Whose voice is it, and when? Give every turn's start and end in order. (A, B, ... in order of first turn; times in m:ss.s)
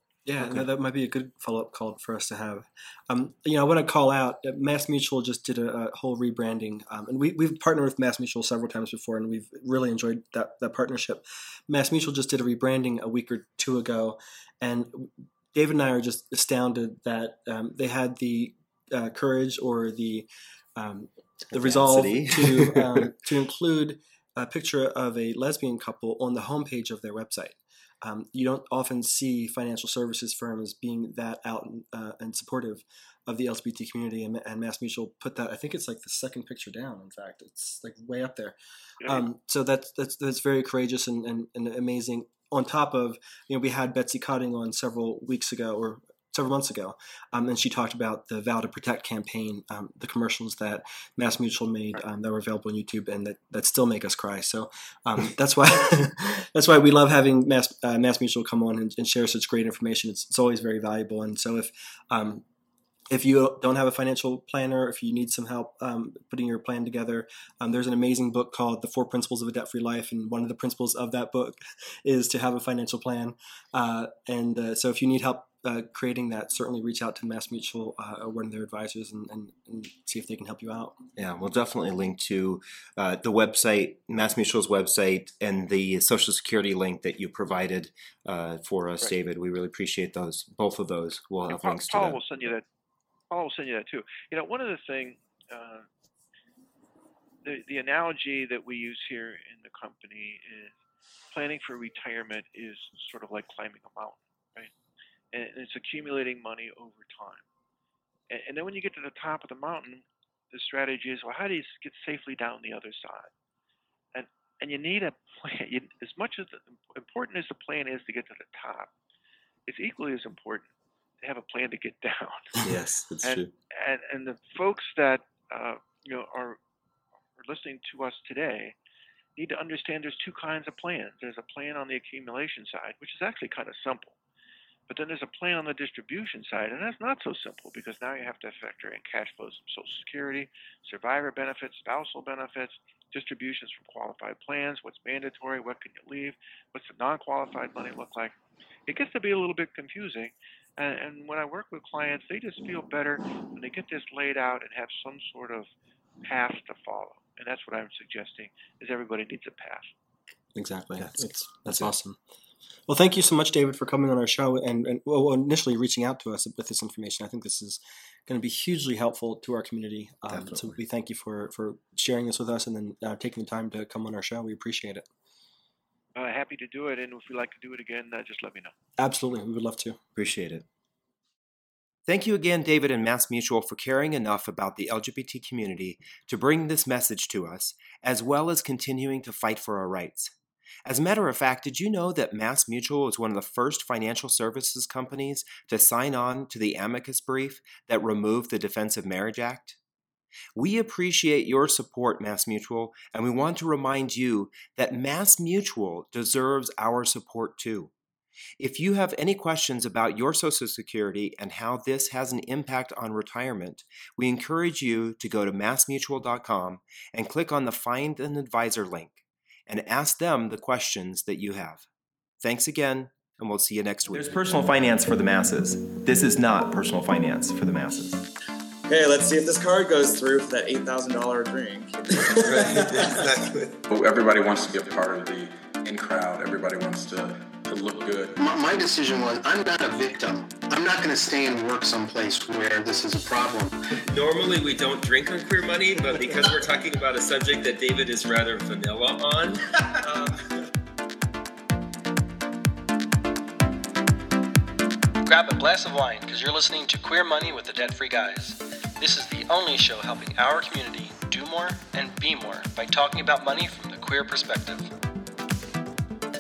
0:00.3-1:02.4 A
0:00.4-0:00.6 B
0:21.5-0:23.1 B
1:03.1-1:21.0 A
1:21.2-1:32.2 B
1:31.5-1:32.6 C
1:33.3-1:35.9 C
1:37.4-1:40.7 C
1:41.3-1:44.7 C
1:45.3-1:47.4 C
1:48.3-1:53.3 C
1:54.2-1:58.9 C
1:59.7-2:00.7 C
2:01.2-2:02.6 C
2:02.6-2:03.5 B
2:03.2-2:06.6 C
2:07.4-2:08.8 C
2:09.4-2:14.2 C
2:14.9-2:28.4 C
2:28.9-2:35.7 C
2:36.2-2:39.9 C
2:40.6-2:42.2 A
2:41.0-2:41.9 B
2:42.9-2:55.1 A
2:50.3-2:50.8 B
2:56.2-2:58.7 C
2:59.0-3:00.0 A
3:00.2-3:00.6 B
3:02.1-3:10.3 B
3:10.8-3:19.8 B
3:20.6-3:27.9 B
3:28.6-3:41.9 B
3:42.4-3:48.3 B
3:48.9-3:53.2 D
3:52.3-3:53.8 B
3:53.9-3:58.4 E
3:58.4-4:04.0 F
4:04.0-4:10.4 B
4:15.2-4:24.9 G